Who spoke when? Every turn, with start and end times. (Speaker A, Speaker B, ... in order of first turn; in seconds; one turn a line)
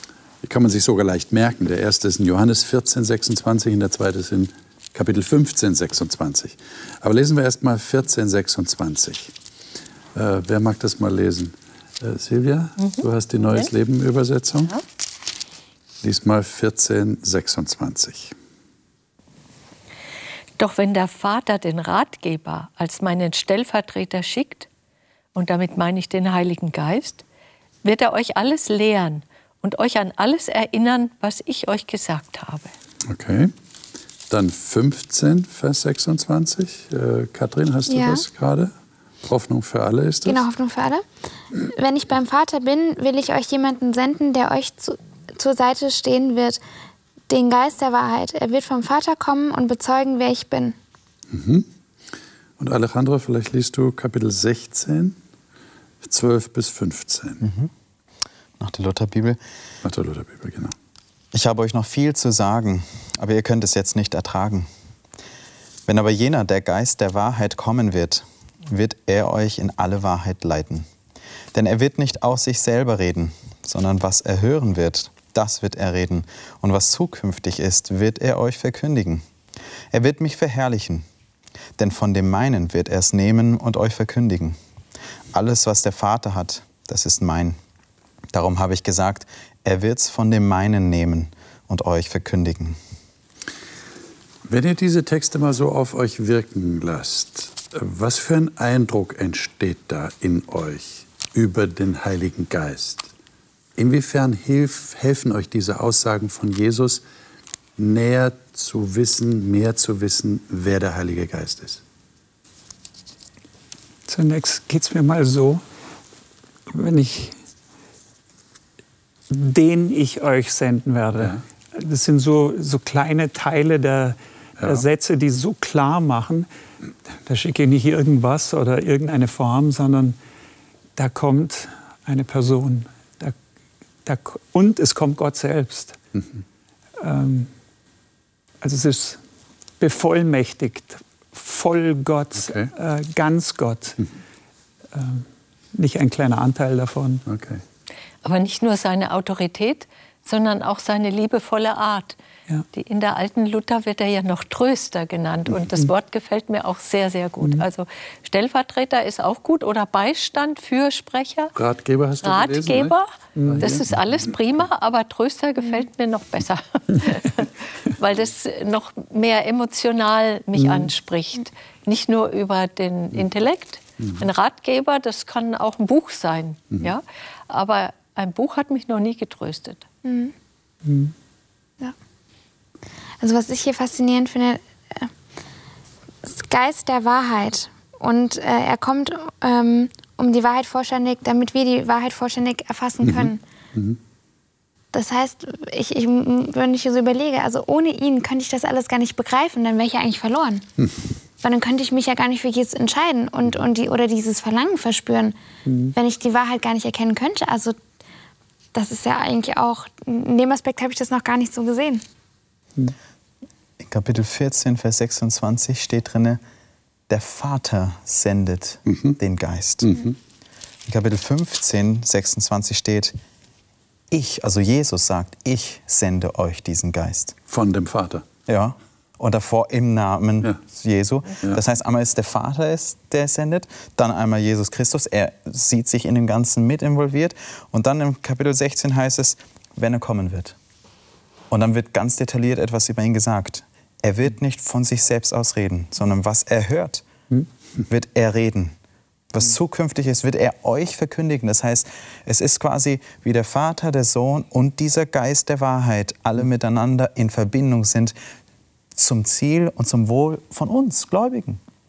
Speaker A: 0.4-9.3
Speaker A: 10.2-14.7
Speaker B: 12.8-13.7
Speaker A: 16.0-18.3
Speaker B: 20.6-24.7
Speaker B: 25.4-27.2
Speaker B: 27.8-32.7
Speaker A: 33.1-33.5
Speaker A: 34.3-38.7
Speaker C: 37.9-38.2
Speaker A: 39.2-40.4
Speaker C: 40.3-41.0
Speaker C: 41.5-46.6
Speaker C: 47.3-50.8
Speaker A: 51.3-51.7
Speaker A: 52.6-55.2
Speaker A: 56.0-57.5
Speaker D: 57.4-57.7
Speaker D: 58.6-59.4
Speaker A: 59.8-60.7
Speaker D: 61.3-64.7
Speaker D: 65.9-70.9
Speaker D: 71.5-79.2
Speaker D: 79.9-81.1
Speaker D: 81.8-84.6
Speaker D: 85.3-87.6
Speaker D: 88.3-92.8
Speaker A: 94.5-103.1
Speaker A: 103.8-107.0
Speaker A: 107.8-111.8
Speaker E: 114.1-115.6
Speaker E: 116.7-117.4
Speaker E: 119.3-126.5
Speaker E: 127.3-130.2
Speaker E: 131.0-133.4
Speaker E: 134.0-136.0
Speaker E: 137.0-137.5
Speaker E: 138.6-139.2
Speaker E: 139.8-144.0
Speaker A: 142.4-142.7
Speaker E: 144.9-147.2
Speaker A: 147.3-147.6
Speaker B: 148.2-152.2
Speaker B: 152.7-161.5
Speaker A: 161.6-164.0
Speaker B: 162.2-179.9
Speaker E: 163.4-163.6
Speaker C: 180.0-180.3
Speaker E: 180.8-181.1
Speaker C: 183.2-185.1
Speaker C: 186.2-193.4
Speaker A: 193.0-194.0
Speaker C: 194.9-200.7
Speaker C: 201.4-205.4
Speaker E: 205.7-205.9
Speaker C: 205.9-207.8
Speaker C: 208.7-212.0
Speaker D: 213.8-216.4
Speaker D: 217.1-220.1
Speaker A: 218.9-219.2
Speaker A: 219.8-220.2
Speaker D: 220.9-223.1
Speaker D: 224.1-227.4
Speaker A: 227.5-228.2
Speaker D: 228.5-240.6
Speaker D: 241.5-247.1
Speaker D: 247.9-248.8
Speaker D: 249.3-258.1
Speaker D: 258.9-261.6